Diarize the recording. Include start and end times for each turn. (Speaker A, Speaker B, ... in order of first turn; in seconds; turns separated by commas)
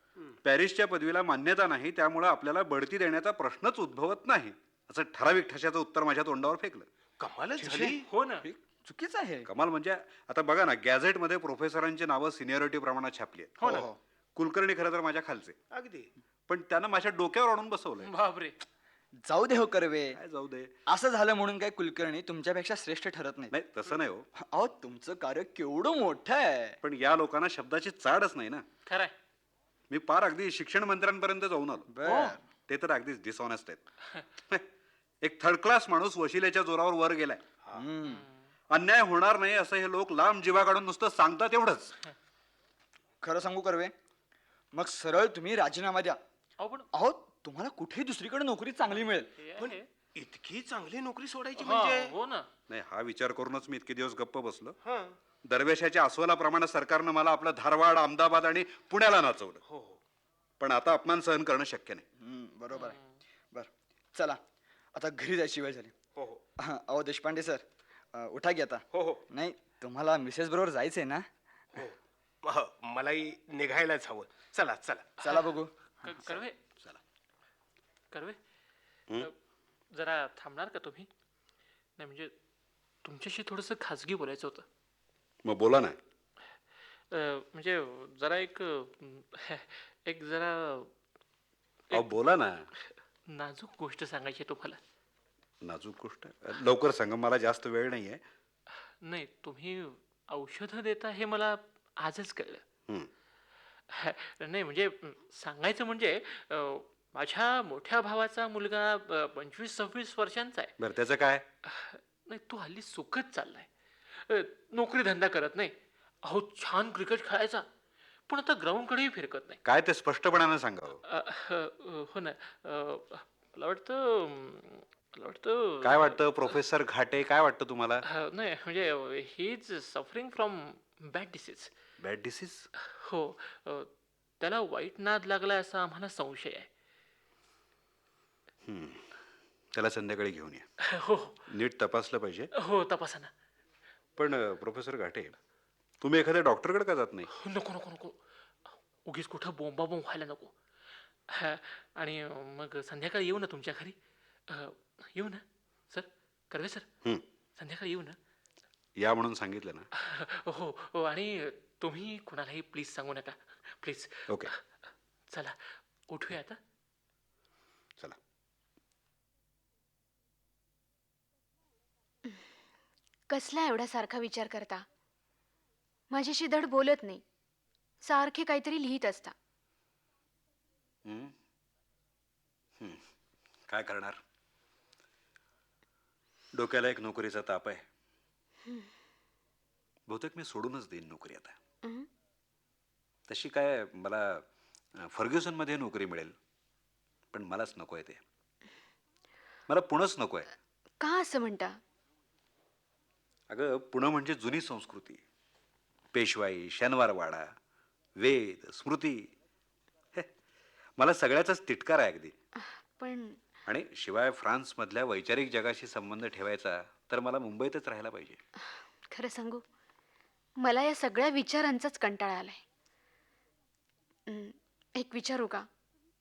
Speaker A: 0.4-6.9, Speaker B: 7.2-8.1, Speaker C: 7.6-9.5, Speaker D: 8.1-8.4, Speaker A: 9.4-13.8, Speaker D: 13.6-13.8, Speaker C: 13.6-14.0, Speaker A: 14.3-15.6, Speaker B: 15.7-16.1, Speaker A: 16.5-18.1, Speaker D: 18.0-18.6, Speaker C: 19.2-20.2, Speaker A: 20.1-20.7, Speaker C: 20.9-23.5, Speaker A: 23.5-24.3, Speaker C: 24.4-26.8, Speaker A: 26.8-28.6, Speaker D: 28.9-29.1, Speaker A: 29.9-31.9, Speaker C: 31.9-32.4, Speaker D: 32.0-32.4, Speaker A: 32.7-33.8, Speaker A: 35.2-37.4, Speaker C: 37.7-38.2, Speaker A: 38.7-41.9, Speaker C: 43.2-43.9, Speaker C: 44.7-46.2, Speaker D: 46.6-46.9, Speaker C: 46.9-49.3, Speaker D: 49.0-49.9, Speaker B: 49.6-52.1, Speaker D: 51.6-52.5, Speaker A: 52.7-54.8, Speaker B: 54.8-55.2, Speaker A: 55.4-59.6, Speaker B: 59.7-60.0, Speaker A: 60.6-62.0, Speaker C: 62.2-63.0, Speaker C: 63.5-64.4, Speaker C: 64.9-66.0, Speaker C: 66.6-71.2, Speaker B: 68.9-69.2, Speaker B: 71.7-75.1, Speaker C: 75.2-75.7, Speaker D: 76.0-76.5, Speaker A: 76.3-77.0, Speaker D: 78.1-78.4, Speaker D: 79.9-81.1, Speaker D: 82.0-82.3, Speaker D: 83.0-84.7, Speaker A: 85.4-86.0, Speaker D: 87.1-90.9, Speaker A: 91.9-92.7, Speaker D: 93.3-94.8, Speaker A: 95.6-98.2, Speaker D: 99.0-102.6, Speaker D: 103.9-110.7, Speaker A: 110.8-111.4, Speaker D: 111.6-117.7, Speaker D: 118.3-119.6, Speaker A: 119.6-121.0, Speaker D: 121.0-126.2, Speaker A: 125.8-128.0, Speaker D: 128.1-131.7, Speaker A: 132.0-132.7, Speaker D: 132.9-133.9, Speaker D: 134.4-136.7, Speaker A: 138.7-139.1, Speaker A: 139.7-140.7, Speaker D: 140.9-141.4, Speaker A: 141.5-142.5, Speaker D: 142.6-143.3, Speaker A: 144.2-145.3, Speaker A: 146.0-147.3, Speaker D: 147.3-148.2, Speaker D: 149.1-150.5, Speaker D: 151.3-153.9, Speaker D: 154.5-156.9, Speaker D: 157.6-158.2, Speaker A: 159.0-159.9, Speaker D: 160.0-164.6, Speaker A: 164.3-164.5, Speaker D: 165.3-166.6, Speaker E: 173.3-174.8, Speaker E: 176.1-177.2, Speaker E: 178.0-179.3, Speaker A: 181.1-181.3, Speaker A: 182.8-183.1, Speaker A: 183.7-184.2, Speaker A: 186.5-187.8, Speaker A: 190.1-191.6, Speaker A: 193.3-194.4, Speaker A: 195.0-196.3, Speaker A: 197.3-198.2, Speaker A: 199.7-200.5, Speaker E: 201.0-201.8, Speaker A: 203.5-205.2, Speaker A: 206.1-207.5, Speaker A: 208.2-209.3, Speaker A: 211.0-212.3, Speaker E: 213.0-213.4, Speaker A: 213.7-218.4, Speaker E: 218.6-219.6, Speaker E: 220.6-222.6, Speaker E: 224.3-225.7